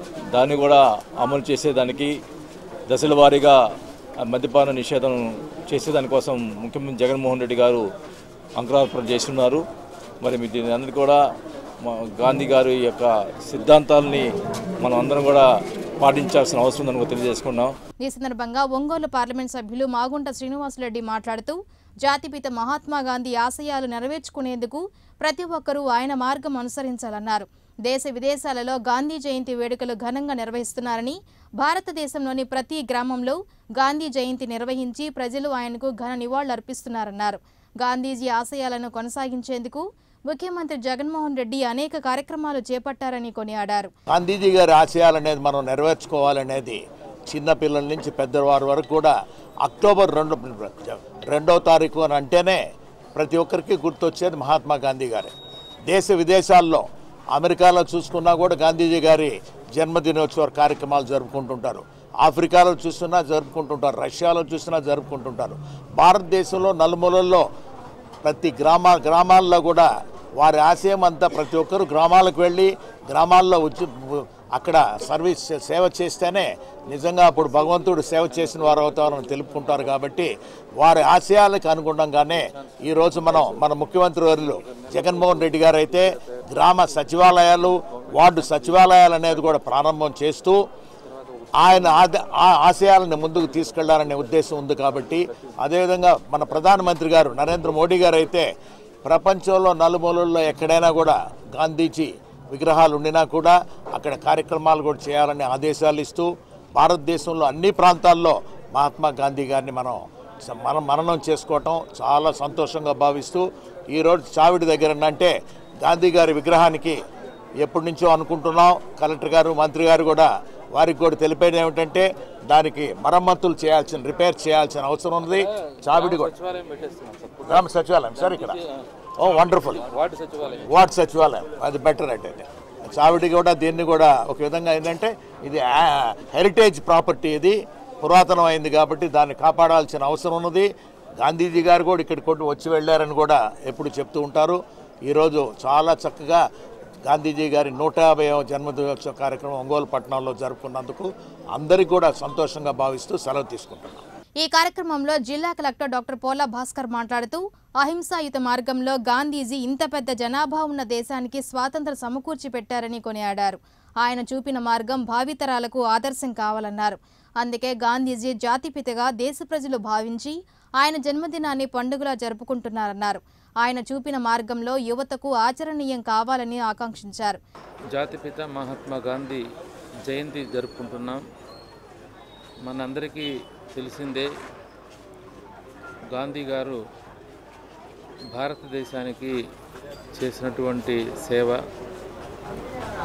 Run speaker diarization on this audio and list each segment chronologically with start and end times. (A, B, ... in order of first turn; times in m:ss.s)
0:00.3-0:02.2 A
0:02.9-0:03.6 A
0:04.2-0:07.8 A
0:08.6-0:09.6 A
0:10.2-0:11.2 A
0:11.8-0:14.3 A
0:14.8-0:15.4 A
0:16.0-0:17.7 A
0:18.0-0:43.9 B
0:44.1-0:52.6 C
0:53.2-0:55.3 C
0:55.9-1:07.4 C
1:08.2-1:30.6 C
1:31.6-1:38.5 C
1:39.0-1:57.0 C
1:57.6-2:06.3 C
2:06.3-2:07.3 D
2:07.4-2:08.6 C
2:09.2-2:09.9 C
2:10.1-2:10.5 D
2:10.6-2:20.7 C
2:21.2-2:26.4 C
2:27.1-2:34.0 C
2:34.4-2:57.4 B
2:57.9-2:59.4 D
3:00.0-3:01.2 D
3:02.6-3:04.3 D
3:06.1-3:06.8 D
3:08.3-3:09.4 D
3:10.1-3:11.6 D